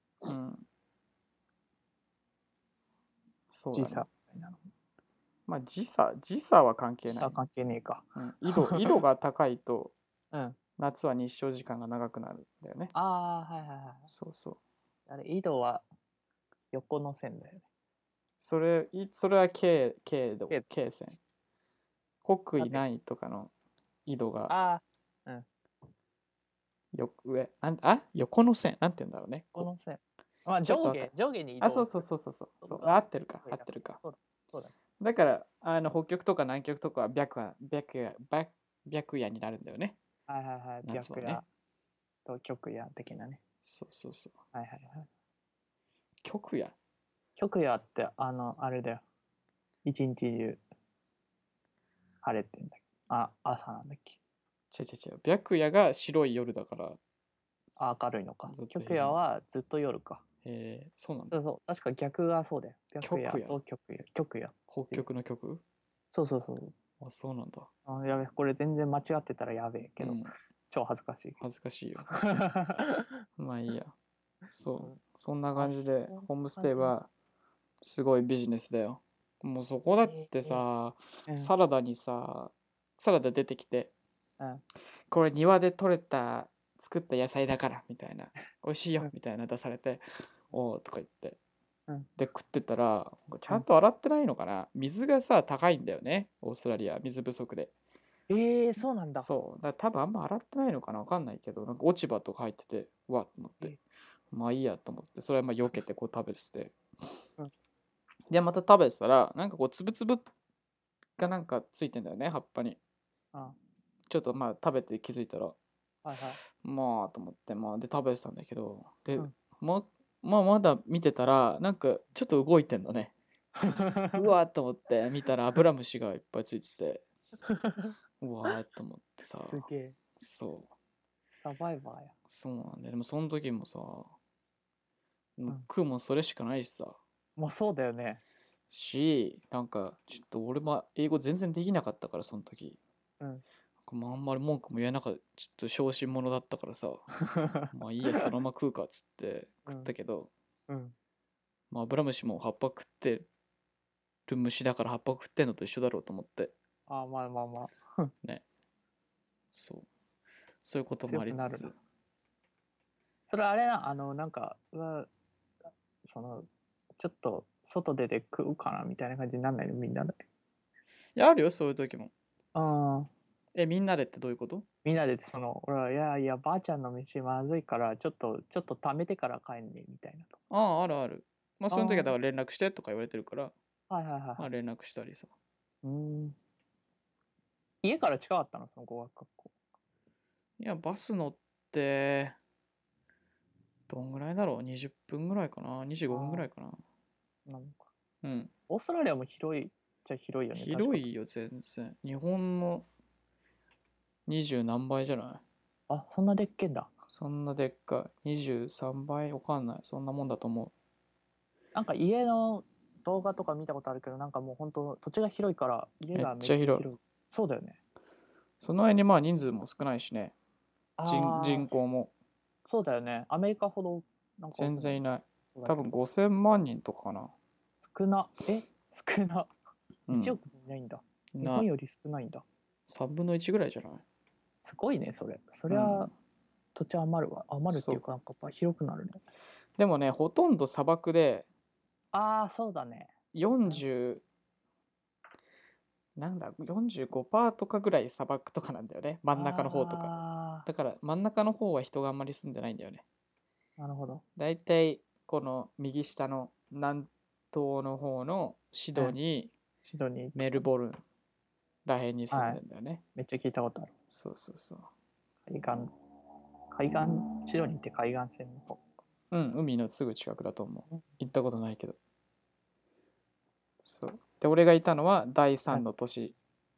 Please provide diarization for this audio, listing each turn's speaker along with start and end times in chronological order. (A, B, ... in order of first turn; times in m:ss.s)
0:00.3-0:00.6 A
0:03.5-0:04.1 A
0:03.7-0:04.6 B
0:05.5-0:07.4 A
0:07.1-0:08.8 B
0:08.2-0:09.9 A
0:10.3-0:10.6 B
0:10.8-0:12.9 A
0:12.9-0:14.1 B
0:14.1-0:14.6 A
0:15.1-0:15.8 B
0:16.7-0:17.6 B
0:18.4-0:21.2 A
0:22.2-0:23.5 A
0:24.1-0:24.5 A
0:24.5-0:25.5 B
0:26.9-0:29.7 A
0:29.6-0:32.0 B
0:30.6-0:34.0 A
0:32.6-0:34.7 B
0:35.0-0:40.0 A
0:40.3-0:41.4 B
0:40.8-0:41.4 A
0:42.2-0:43.4 B
0:43.6-0:44.4 A
0:44.5-0:45.1 B
0:46.2-0:46.8 A
0:47.4-0:49.0 B
0:49.8-0:50.6 B
0:52.2-0:54.2 B
0:54.7-0:57.0 A
0:57.8-1:00.2 B
0:58.5-0:59.2 A
1:00.4-1:01.4 A
1:01.3-1:05.0 B
1:03.0-1:03.6 A
1:04.7-1:05.6 A
1:06.1-1:06.7 B
1:07.0-1:07.7 A
1:07.9-1:10.2 B
1:10.0-1:10.3 A
1:10.7-1:11.4 B
1:11.4-1:12.2 A
1:12.1-1:13.2 B
1:13.4-1:14.0 A
1:14.5-1:17.1 A
1:15.6-1:16.9 B
1:17.8-1:23.9 A
1:20.1-1:20.6 B
1:25.1-1:31.4 A
1:32.2-1:37.7 A
1:38.3-1:39.3 B
1:39.2-1:43.8 A
1:44.3-1:46.8 A
1:48.3-1:50.3 A
1:51.2-1:52.8 A
1:54.1-1:55.6 A
1:56.0-1:56.4 B
1:56.6-2:03.1 A
2:03.6-2:04.2 B
2:04.1-2:07.0 A
2:07.5-2:07.9 B
2:08.2-2:09.7 A
2:09.4-2:10.0 B
2:10.2-2:10.7 A
2:11.4-2:12.1 B
2:12.3-2:14.1 A
2:15.4-2:17.0 A
2:17.4-2:18.2 B
2:18.7-2:22.8 A
2:23.9-2:27.1 A
2:27.2-2:28.2 B
2:27.7-2:30.3 A
2:30.7-2:31.0 B
2:31.7-2:33.3 A
2:34.3-2:36.5 A
2:36.9-2:38.1 B
2:39.5-2:39.9 A
2:40.6-2:41.8 A
2:41.1-2:41.7 B
2:43.3-2:45.1 B
2:46.0-2:50.2 B
2:51.2-2:52.1 A
2:52.5-2:53.1 B
2:53.6-2:54.6 A
2:54.8-3:00.4 B
3:00.5-3:03.5 A
3:01.7-3:02.2 B
3:03.9-3:04.5 B
3:04.4-3:05.3 A
3:05.8-3:06.4 B
3:07.8-3:09.5 B
3:10.6-3:12.4 A
3:13.9-3:16.8 A
3:16.1-3:16.5 B
3:17.5-3:17.8 B
3:18.2-3:18.5 A
3:18.7-3:21.1 B
3:20.5-3:22.9 A
3:24.3-3:25.4 A
3:25.9-3:26.9 B
3:27.1-3:30.7 A
3:31.8-3:37.8 B
3:36.2-3:36.9 A
3:38.6-3:40.3 A
3:41.0-3:41.7 B
3:41.1-3:42.1 A
3:42.7-3:45.0 B
3:44.5-3:47.3 A
3:45.5-3:45.8 B
3:47.8-3:49.5 B
3:50.1-3:50.4 A
3:50.1-3:52.4 B
3:51.4-3:51.7 A
3:52.9-3:54.0 A
3:54.6-3:56.1 B
3:55.7-3:56.1 A
3:56.8-3:59.2 B
3:57.7-3:58.0 A
3:59.8-4:01.5 A
4:02.1-4:03.1 B
4:03.3-4:04.2 A
4:06.2-4:13.0 A
4:09.3-4:10.7 B
4:13.8-4:14.2 B
4:14.4-4:19.5 A
4:19.8-4:20.6 B
4:20.4-4:21.0 A
4:21.8-4:23.0 A
4:22.3-4:22.6 B
4:23.2-4:23.9 B
4:24.1-4:24.9 A
4:25.5-4:25.9 B
4:26.7-4:28.8 B
4:29.3-4:32.0 A
4:33.8-4:36.4 A